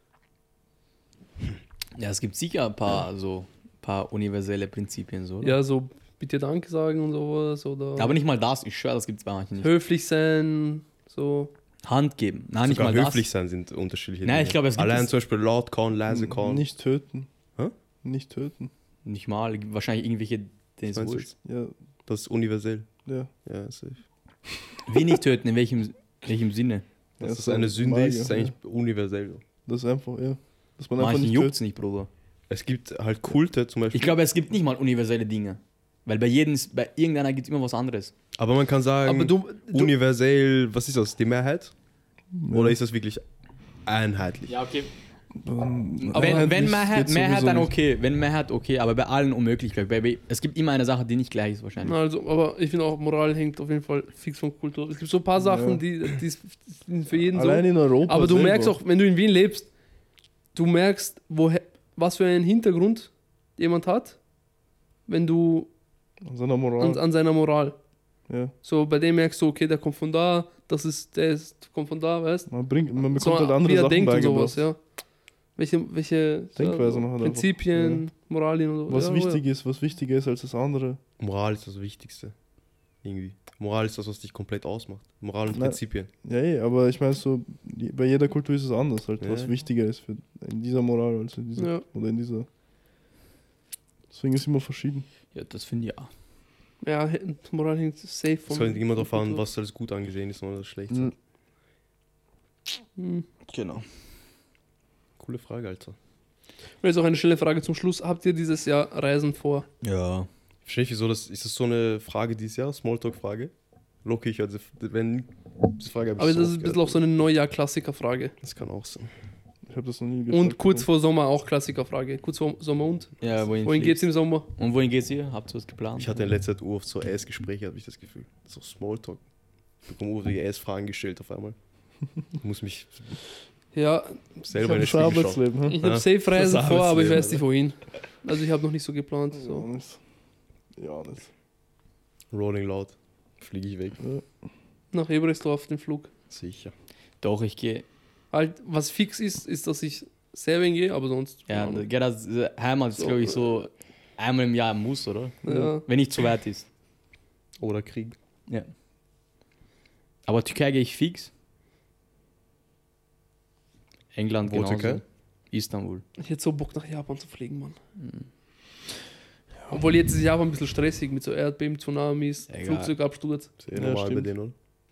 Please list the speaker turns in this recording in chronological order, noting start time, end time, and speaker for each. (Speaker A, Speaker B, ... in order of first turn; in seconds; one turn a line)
Speaker A: 2.0-5.6
Speaker B: 5.4-8.2
Speaker A: 8.0-9.7
Speaker B: 9.6-11.5
Speaker A: 11.8-13.2
Speaker C: 12.6-16.7
Speaker A: 14.2-15.1
Speaker D: 16.1-17.3
Speaker D: 18.0-18.7
Speaker A: 19.0-21.3
Speaker C: 20.9-21.3
Speaker D: 21.4-21.7
Speaker C: 22.1-22.9
Speaker D: 23.1-23.3
Speaker C: 23.4-24.0
Speaker A: 24.9-26.8
Speaker C: 27.2-29.4
Speaker D: 27.2-28.5
Speaker D: 29.6-31.5
Speaker A: 31.0-32.1
Speaker C: 32.5-34.2
Speaker A: 33.9-38.1
Speaker C: 38.3-41.7
Speaker B: 39.0-39.9
Speaker D: 42.3-42.8
Speaker C: 42.5-43.2
Speaker C: 43.8-44.5
Speaker A: 44.5-44.9
Speaker D: 45.3-47.7
Speaker A: 46.0-52.0
Speaker B: 46.1-46.5
Speaker B: 51.8-59.7
Speaker D: 55.4-55.8
Speaker D: 57.3-58.8
Speaker B: 60.5-64.2
Speaker B: 65.1-65.7
Speaker D: 66.2-67.0
Speaker B: 66.8-67.8
Speaker D: 68.3-68.5
Speaker B: 68.6-72.5
Speaker D: 72.5-74.6
Speaker B: 73.1-74.8
Speaker B: 75.5-79.4
Speaker D: 76.5-78.0
Speaker D: 78.9-81.0
Speaker C: 81.2-82.3
Speaker C: 83.0-86.1
Speaker D: 85.5-92.5
Speaker C: 89.2-89.5
Speaker B: 91.6-91.8
Speaker D: 94.1-95.0
Speaker A: 95.3-96.1
Speaker B: 96.8-99.4
Speaker C: 98.5-101.1
Speaker B: 103.0-103.2
Speaker A: 103.5-103.8
Speaker C: 105.2-106.0
Speaker B: 106.8-109.7
Speaker A: 109.8-110.3
Speaker C: 110.6-113.5
Speaker C: 114.0-117.0
Speaker B: 116.2-118.3
Speaker C: 118.4-119.1
Speaker D: 119.7-120.9
Speaker B: 120.3-124.5
Speaker A: 123.2-126.2
Speaker C: 126.0-129.2
Speaker C: 129.8-131.6
Speaker C: 132.4-133.2
Speaker B: 133.7-139.7
Speaker C: 134.5-137.4
Speaker D: 134.6-135.8
Speaker D: 139.3-140.0
Speaker D: 140.8-141.3
Speaker C: 142.3-144.0
Speaker B: 144.9-146.1
Speaker C: 146.3-146.7
Speaker A: 147.2-147.8
Speaker B: 148.3-151.8
Speaker A: 151.5-156.7
Speaker B: 153.0-153.6
Speaker B: 155.4-155.8
Speaker C: 157.6-158.2
Speaker A: 160.2-161.3
Speaker A: 164.1-166.0
Speaker C: 164.5-165.0
Speaker B: 166.2-167.8
Speaker A: 168.0-168.2
Speaker B: 169.7-173.5
Speaker A: 172.5-172.9
Speaker C: 173.6-174.5
Speaker D: 173.7-174.3